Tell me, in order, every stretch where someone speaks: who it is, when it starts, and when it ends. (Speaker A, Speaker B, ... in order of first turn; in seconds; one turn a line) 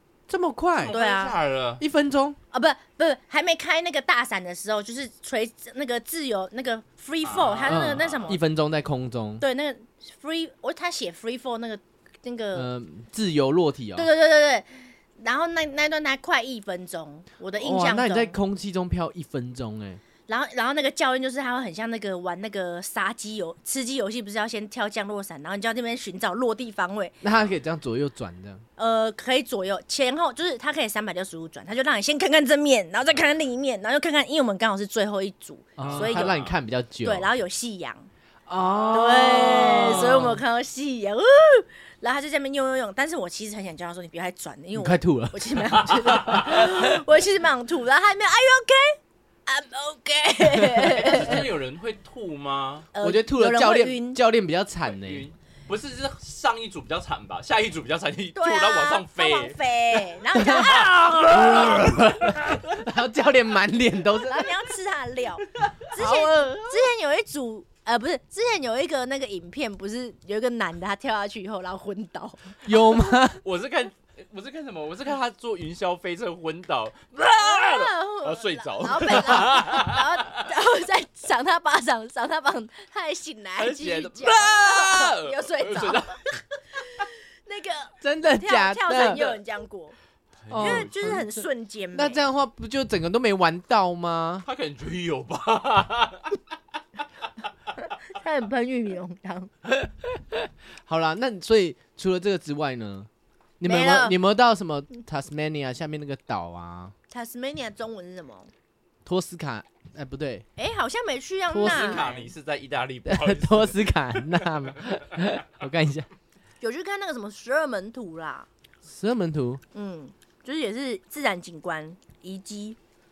Speaker A: 0.3-0.9
Speaker B: 0.8-1.8
Speaker C: 0.8-1.4
Speaker A: 1.8-2.4
Speaker C: 2.5-8.4
Speaker B: 7.2-8.4
Speaker A: 7.7-9.4
Speaker C: 9.4-12.7
Speaker A: 12.5-14.1
Speaker C: 13.9-18.4
Speaker A: 17.6-20.0
Speaker C: 20.3-27.1
Speaker A: 27.2-28.6
Speaker C: 28.8-36.3
Speaker A: 35.8-37.3
Speaker B: 35.8-36.6
Speaker C: 37.0-38.1
Speaker A: 38.5-40.4
Speaker C: 38.9-51.5
Speaker A: 44.7-46.9
Speaker B: 45.9-46.7
Speaker A: 50.5-51.4
Speaker B: 50.9-52.9
Speaker C: 52.9-54.2
Speaker A: 53.0-55.3
Speaker B: 54.9-62.7
Speaker C: 58.3-61.8
Speaker A: 60.3-64.6
Speaker C: 64.2-73.0
Speaker A: 65.9-66.9
Speaker A: 72.6-73.4
Speaker B: 73.4-80.4
Speaker C: 77.3-90.0
Speaker B: 83.6-86.3
Speaker A: 88.0-89.2
Speaker B: 90.4-91.2
Speaker A: 90.5-94.5
Speaker C: 90.6-92.2
Speaker B: 94.4-96.4
Speaker C: 98.0-99.5
Speaker A: 100.7-103.1
Speaker A: 103.6-106.9
Speaker C: 103.6-104.2
Speaker C: 107.1-108.5
Speaker A: 109.0-110.5
Speaker C: 110.6-112.3
Speaker A: 111.5-112.2
Speaker B: 111.6-114.5
Speaker A: 113.0-116.1
Speaker C: 116.6-118.5
Speaker A: 118.8-119.6
Speaker C: 119.7-122.8